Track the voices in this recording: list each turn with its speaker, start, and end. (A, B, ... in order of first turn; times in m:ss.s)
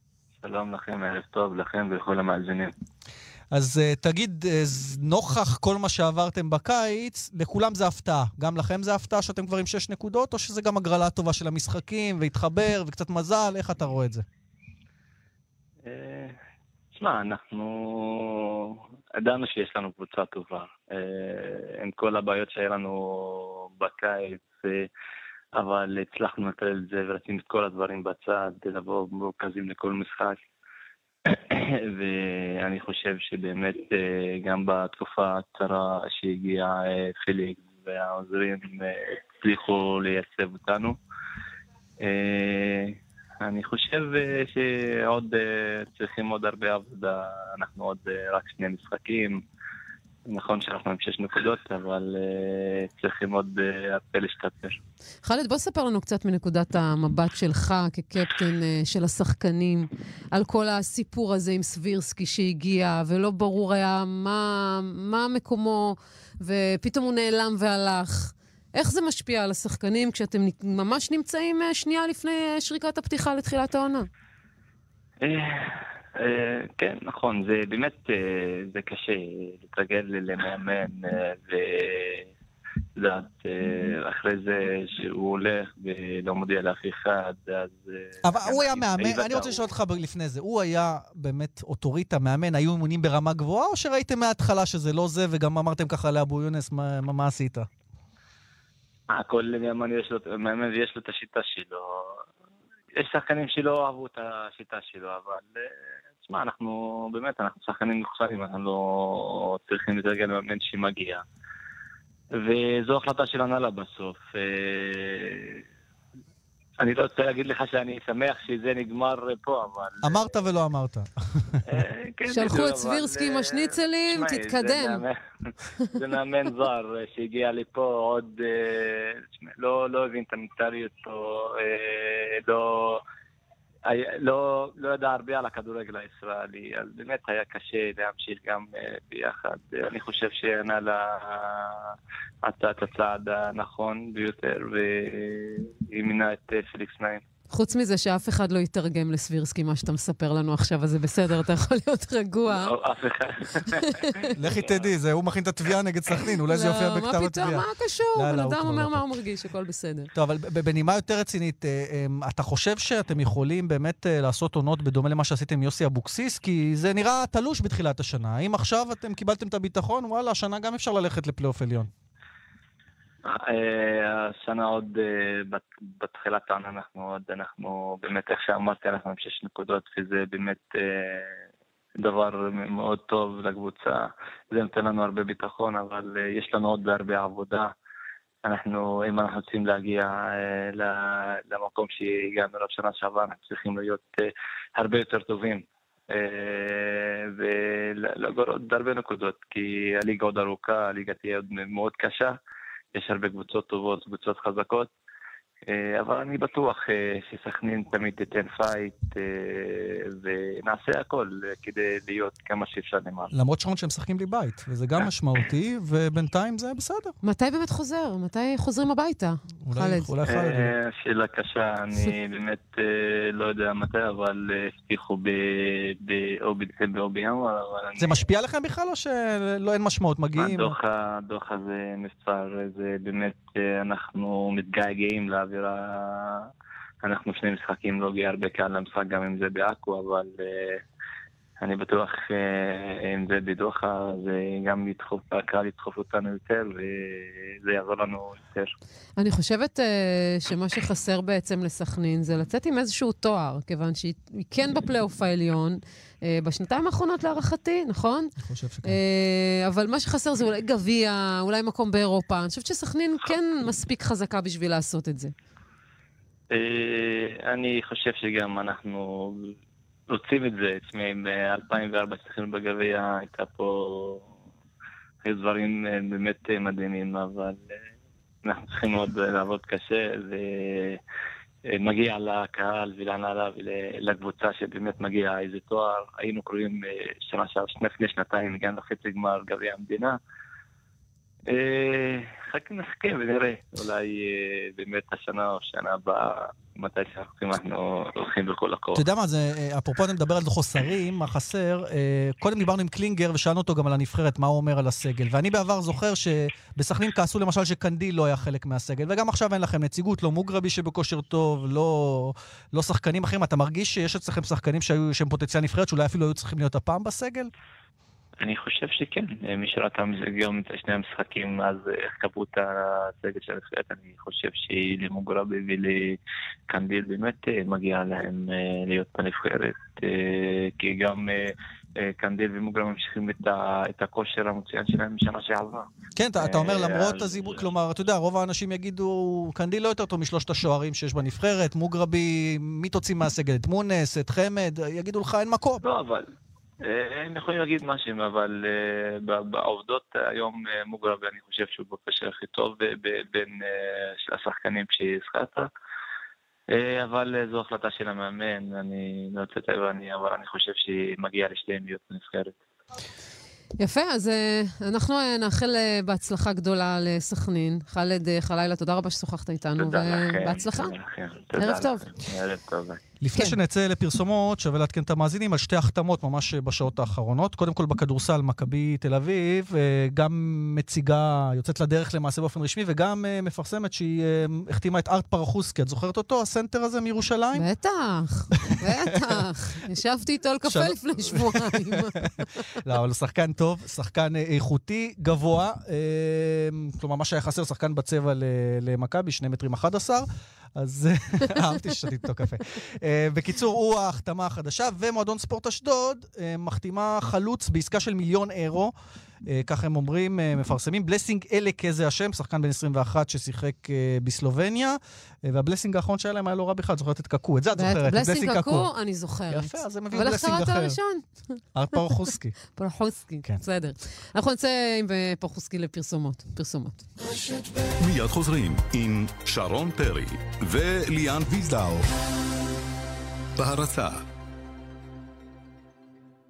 0:00.4-0:02.7 A
0:03.5-0:14.2 B
0:15.8-0:16.4 A
0:16.9-0:24.9 A
0:25.6-0:30.4 A
0:31.3-0:41.0 A
0:42.0-0:49.4 A
0:50.3-0:54.8 A
0:55.2-1:14.1 C
1:15.2-1:22.3 A
1:23.0-1:29.6 A
1:28.2-1:37.7 B
1:39.1-1:42.2 A
1:43.0-1:51.2 A
1:52.4-1:55.6 A
1:56.8-2:00.3 A
2:00.0-2:01.8 B
2:01.6-2:13.0 A
2:02.3-2:05.0 C
2:13.8-2:21.9 A
2:22.4-2:27.2 A
2:27.5-2:32.7 C
2:32.5-2:34.3 A
2:34.4-2:39.0 B
2:36.5-2:40.1 C
2:40.1-2:51.9 B
2:53.2-3:01.4 A
3:02.0-3:07.7 A
3:08.4-3:14.2 A
3:14.8-3:22.3 A
3:22.9-3:24.9 A
3:25.7-3:33.3 A
3:33.3-3:37.1 B
3:37.2-3:40.1 C
3:39.6-3:40.7 B
3:40.3-3:48.2 A
3:48.0-3:50.8 B
3:50.4-3:56.4 A
3:57.0-4:00.8 A
4:01.6-4:08.7 A
4:09.2-4:18.3 C
4:18.4-4:19.0 B
4:18.8-4:25.3 C
4:26.5-4:29.5 A
4:30.1-4:34.3 A
4:35.2-4:37.7 A
4:38.4-4:41.0 A
4:41.7-4:50.2 A
4:51.5-4:59.0 A
4:58.9-5:17.5 B
5:18.4-5:26.2 A
5:26.7-5:35.8 A
5:36.2-5:45.8 B
5:36.4-5:37.7 A
5:45.8-5:46.3 A
5:46.8-5:55.7 A
5:56.7-6:02.6 A
6:03.8-6:10.9 C
6:09.8-6:13.0 A
6:11.6-6:12.0 C
6:13.2-6:27.6 B
6:27.5-6:32.2 C
6:30.6-6:32.3 B
6:32.8-6:48.9 B
6:49.4-6:58.9 B
6:57.8-7:01.3 C
6:59.5-7:01.0 B
7:01.7-7:02.5 B
7:02.7-7:07.0 C
7:08.0-7:12.0 D
7:13.6-7:14.2 D